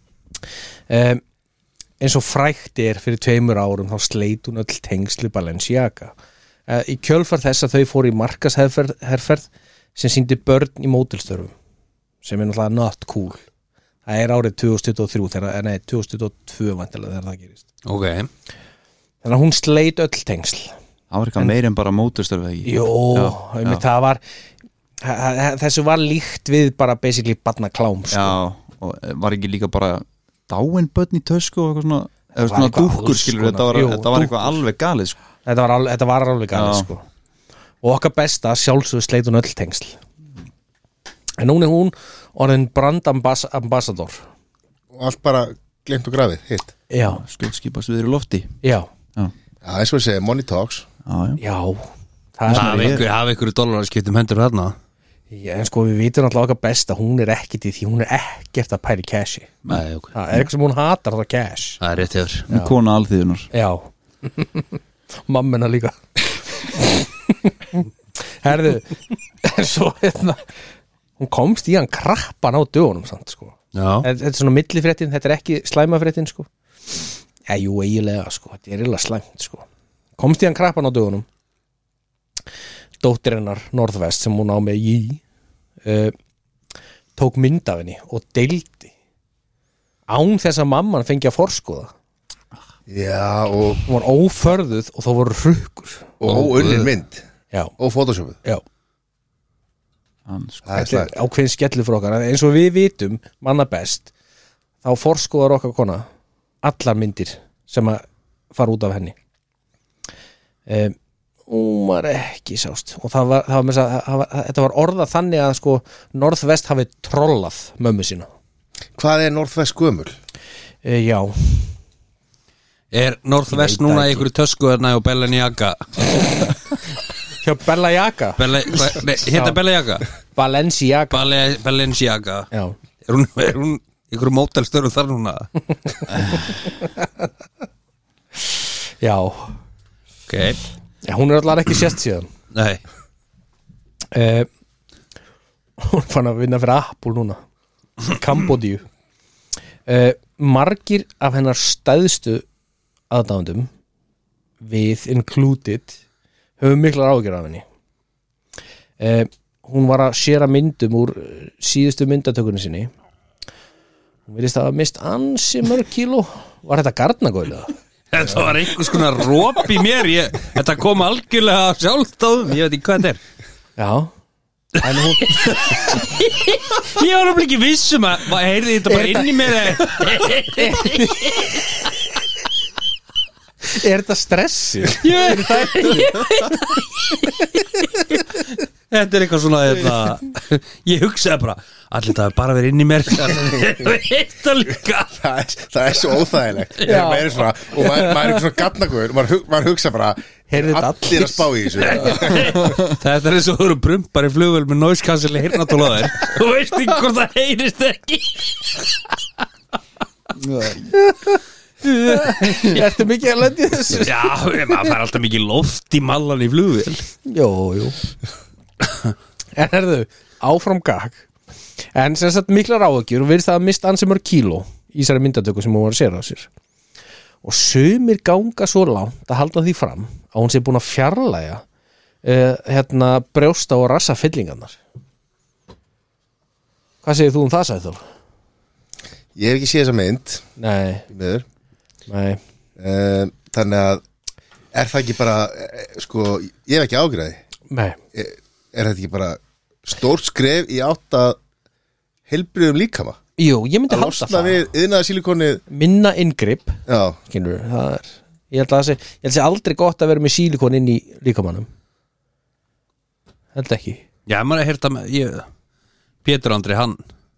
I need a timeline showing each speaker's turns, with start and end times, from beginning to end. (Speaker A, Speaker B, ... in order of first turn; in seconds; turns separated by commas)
Speaker A: 0.9-1.2, Speaker A: 2.0-6.1, Speaker A: 6.7-11.5, Speaker A: 12.2-13.4, Speaker A: 14.1-17.6, Speaker B: 17.8-18.3, Speaker A: 19.2-20.7, Speaker C: 21.1-23.8, Speaker A: 22.6-24.2, Speaker A: 25.0-28.4, Speaker C: 28.1-35.2, Speaker A: 32.4-34.6, Speaker A: 35.4-37.0, Speaker C: 36.5-36.9, Speaker A: 37.8-40.0, Speaker A: 41.4-44.2, Speaker D: 44.9-46.7, Speaker A: 46.9-47.2, Speaker C: 47.1-48.5, Speaker A: 48.6-48.9, Speaker D: 49.6-50.9, Speaker C: 51.0-51.4, Speaker A: 51.4-53.0, Speaker C: 52.5-53.1, Speaker B: 52.5-54.8, Speaker A: 55.3-59.5, Speaker B: 59.7-60.1, Speaker A: 60.1-61.8, Speaker B: 61.8-62.5, Speaker C: 62.5-63.5, Speaker A: 63.5-70.5, Speaker A: 71.2-76.5, Speaker B: 73.7-74.1, Speaker A: 77.5-79.7, Speaker A: 80.2-81.2, Speaker A: 83.0-85.2, Speaker A: 85.8-86.1, Speaker A: 87.2-88.9, Speaker A: 90.1-91.9, Speaker D: 92.9-93.9, Speaker A: 93.9-96.2, Speaker D: 96.2-97.2, Speaker B: 96.2-96.9, Speaker D: 97.8-98.4, Speaker C: 100.2-100.8, Speaker D: 100.6-101.1, Speaker A: 100.8-104.1, Speaker A: 104.8-106.0, Speaker A: 106.6-109.2, Speaker A: 110.7-111.0, Speaker A: 111.5-118.3, Speaker D: 119.0-120.2, Speaker A: 120.8-121.7, Speaker B: 122.9-126.5, Speaker A: 123.5-124.2, Speaker A: 127.4-128.4, Speaker B: 128.4-130.1, Speaker A: 129.3-129.6, Speaker A: 130.3-131.2, Speaker B: 131.1-132.5, Speaker B: 133.0-135.5, Speaker C: 136.1-136.4, Speaker A: 139.0-139.6, Speaker B: 140.3-140.6, Speaker A: 141.0-142.3, Speaker B: 142.5-142.8, Speaker A: 144.1-144.5, Speaker A: 145.8-147.4, Speaker A: 148.0-148.8, Speaker A: 149.8-152.4, Speaker A: 153.1-153.7, Speaker A: 154.6-156.0, Speaker A: 156.6-157.6, Speaker A: 159.0-162.9, Speaker A: 164.3-167.7, Speaker B: 168.1-173.2, Speaker A: 173.8-174.1, Speaker A: 174.8-175.8, Speaker B: 175.1-181.6, Speaker A: 178.9-179.5, Speaker A: 180.5-181.7, Speaker A: 183.7-186.5, Speaker B: 185.0-195.2, Speaker D: 195.1-202.7, Speaker B: 196.8-197.2, Speaker A: 196.8-197.3, Speaker A: 200.5-201.5, Speaker B: 201.8-209.1, Speaker C: 202.6-202.9, Speaker C: 210.3-210.9, Speaker A: 210.9-214.3, Speaker B: 214.0-217.1, Speaker A: 217.2-218.0, Speaker A: 219.5-221.2, Speaker A: 221.9-226.5, Speaker A: 227.4-231.6, Speaker A: 232.2-234.8, Speaker A: 237.0-238.0, Speaker D: 239.3-240.5, Speaker A: 240.6-241.1, Speaker D: 241.1-241.4, Speaker A: 242.1-242.4, Speaker D: 242.8-244.0, Speaker D: 244.7-247.4, Speaker A: 247.7-248.0, Speaker D: 248.1-251.4, Speaker D: 252.3-253.2, Speaker A: 253.4-254.7, Speaker D: 253.9-255.6, Speaker A: 255.7-261.7, Speaker D: 256.9-257.2, Speaker A: 263.5-264.0, Speaker B: 264.3-265.4, Speaker B: 266.2-267.0